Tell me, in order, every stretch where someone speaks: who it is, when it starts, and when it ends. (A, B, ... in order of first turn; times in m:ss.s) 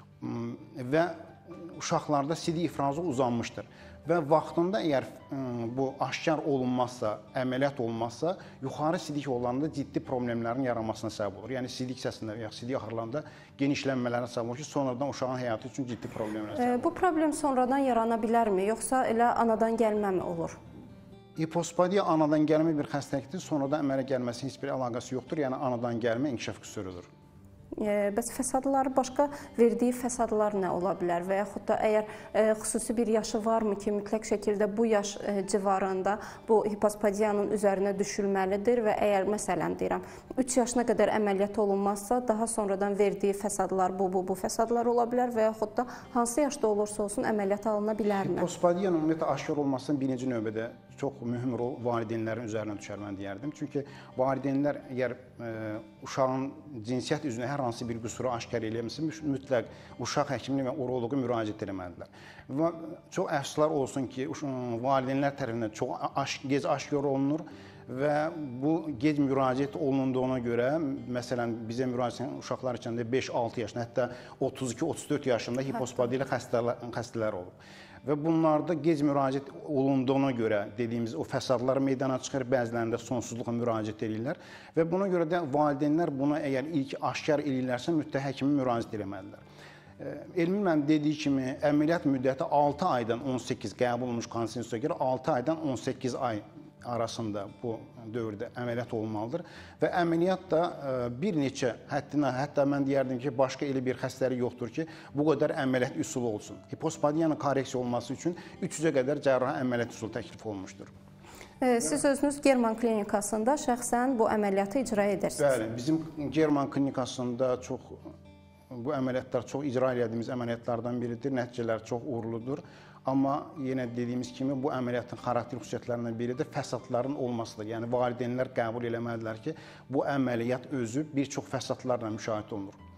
0:00.2-0:16.9 A
0:16.6-0:20.6 B
0:21.4-0:27.1 A
0:27.8-0:48.5 B
0:48.2-1:17.5 A
1:18.0-1:29.4 A
1:30.0-1:50.9 A
1:51.6-1:55.6 B
1:55.4-1:58.0 A
1:58.7-2:12.8 A